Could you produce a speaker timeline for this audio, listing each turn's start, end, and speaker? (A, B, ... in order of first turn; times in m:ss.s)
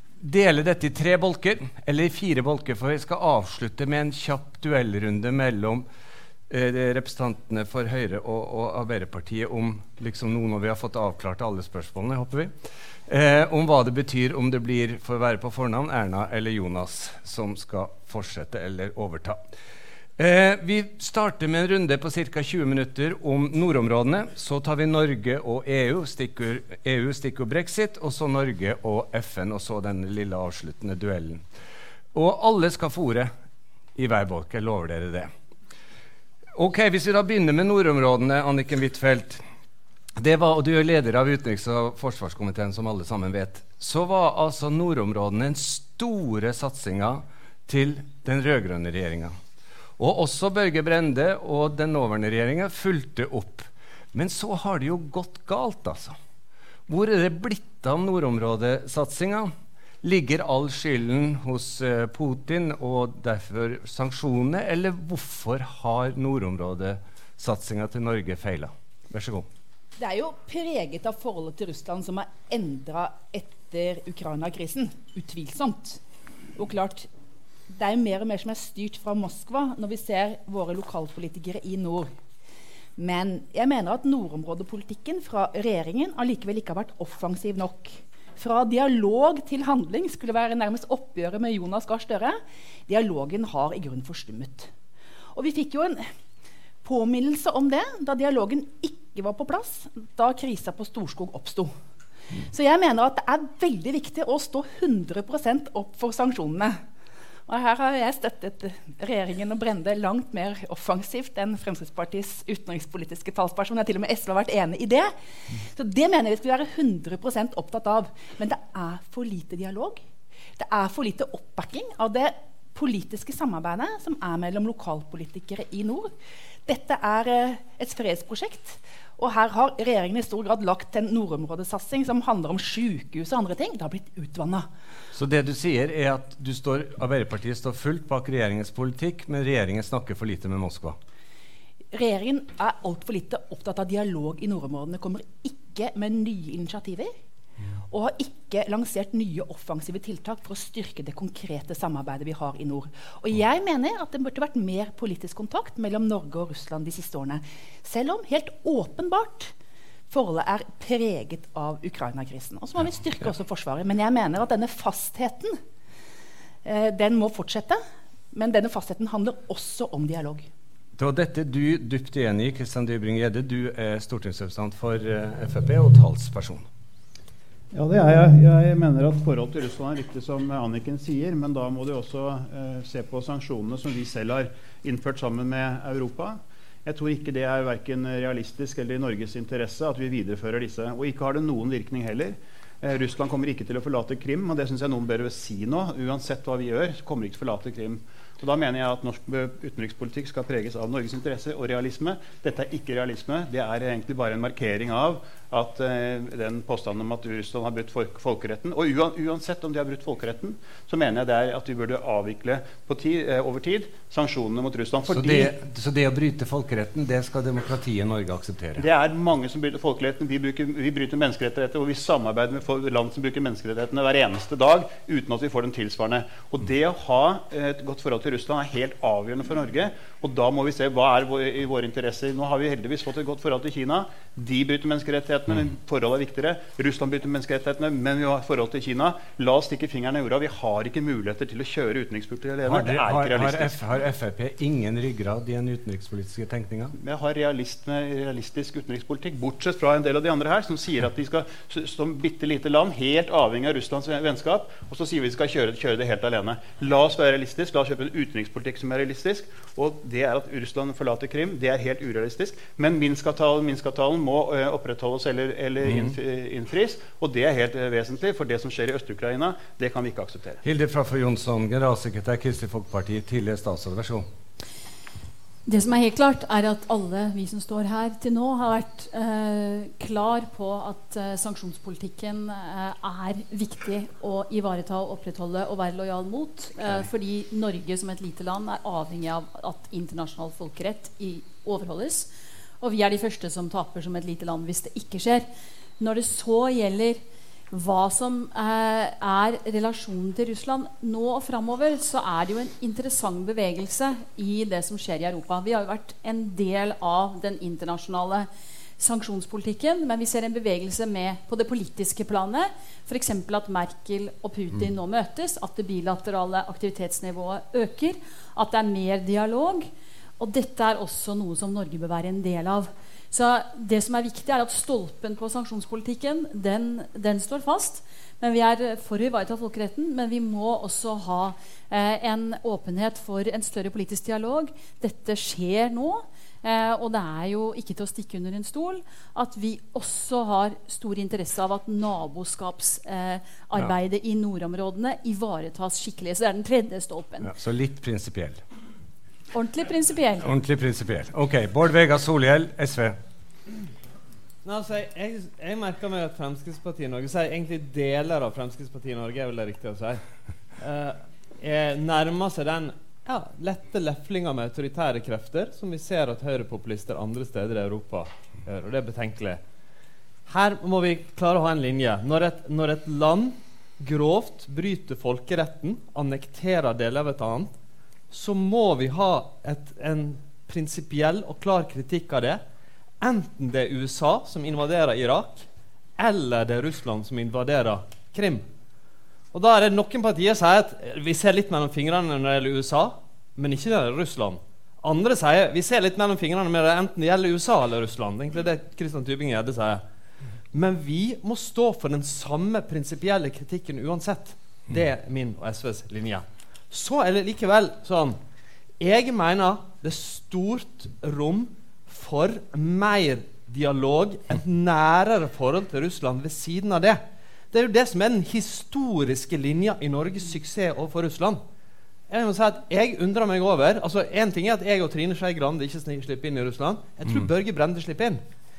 0:00.2-0:05.8 A
0:06.5-0:19.4 A
0:20.2-0:31.4 A
0:32.1-0:33.3 A
0:33.9-0:35.3 A
0:36.5-0:39.4 A
0:40.2-0:49.4 A
0:50.0-0:56.2 A
0:56.9-1:09.5 A
1:10.0-1:16.0 B
1:16.6-1:17.1 B
1:17.7-1:22.1 B
1:23.0-1:34.7 B
1:35.3-1:36.1 B
1:36.8-1:41.7 B
1:42.4-1:46.8 B
1:47.5-2:00.0 B
2:00.6-2:06.1 B
2:06.6-2:14.7 B
2:15.1-2:21.0 A
2:21.9-2:27.1 B
2:27.9-2:39.5 B
2:40.1-2:45.6 B
2:46.6-2:50.5 B
2:51.0-2:56.6 A
2:57.7-3:35.6 C
3:35.1-3:38.8 A
3:38.8-4:03.8 C
4:02.6-4:06.9 A
4:07.0-4:30.6 C
4:30.6-4:34.3 A
4:35.6-4:57.2 D
4:57.7-5:08.5 D
5:09.0-5:47.5 D
5:47.4-5:48.6 A
5:49.5-5:50.5 D
5:50.4-5:53.2 A
5:54.6-6:00.2 E
6:00.8-6:09.6 E
6:10.5-6:17.7 E
6:18.3-6:22.6 E
6:23.2-6:25.6 E
6:26.2-6:28.6 E
6:29.5-6:40.0 E
6:40.7-6:48.4 E
6:49.0-7:01.6 E
7:02.3-7:08.4 E
7:07.2-7:07.5 A